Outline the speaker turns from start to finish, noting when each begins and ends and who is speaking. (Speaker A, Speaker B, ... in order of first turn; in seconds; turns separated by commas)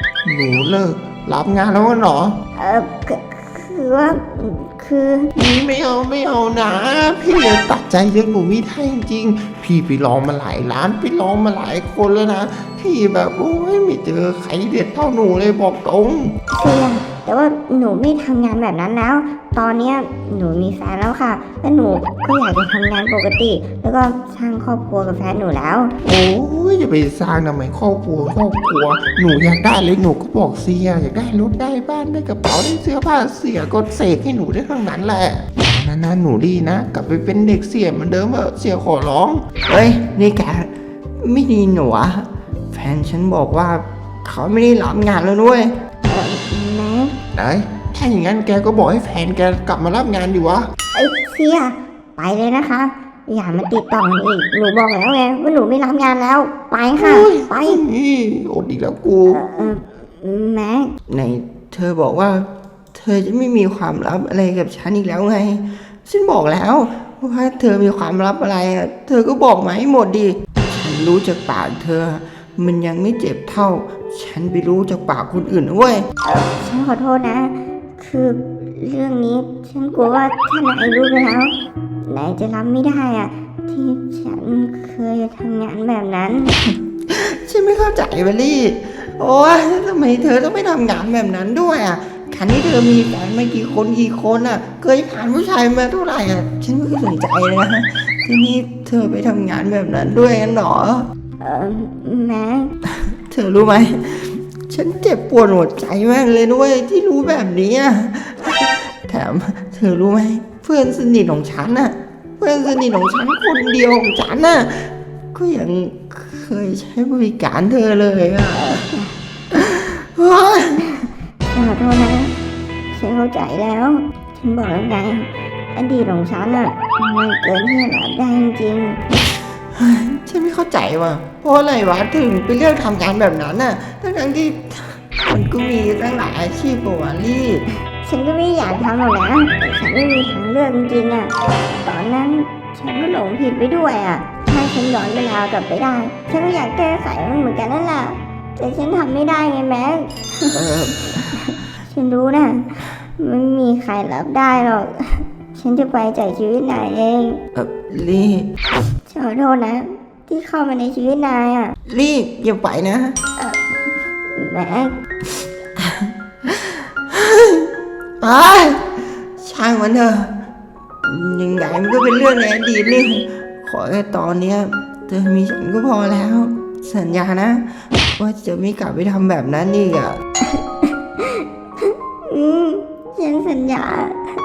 Speaker A: 0.2-2.4, Speaker B: 2.5-5.3, Speaker A: 5.4-16.4, Speaker B: 16.5-25.9, Speaker A: 26.0-39.5, Speaker C: 39.7-45.7, Speaker B: 46.1-47.1, Speaker A: 47.4-50.6, Speaker B: 50.9-57.8, Speaker A: 57.0-59.6, Speaker B: 59.3-60.9, Speaker C: 61.1-76.1, Speaker B: 76.2-86.5, Speaker C: 87.1-101.1, Speaker B: 101.4-102.7, Speaker C: 103.0-118.9, Speaker B: 118.5-119.1, Speaker C: 119.5-120.9, Speaker B: 120.9-122.3, Speaker B: 122.9-129.0, Speaker C: 129.7-137.7, Speaker B: 138.0-150.6, Speaker C: 150.5-151.4, Speaker B: 151.1-157.4, Speaker C: 157.6-158.5, Speaker B: 159.1-161.8, Speaker C: 161.9-163.2, Speaker B: 164.2-165.0, Speaker C: 165.8-167.7, Speaker C: 168.2-170.3, Speaker C: 171.0-180.2, Speaker B: 180.5-184.2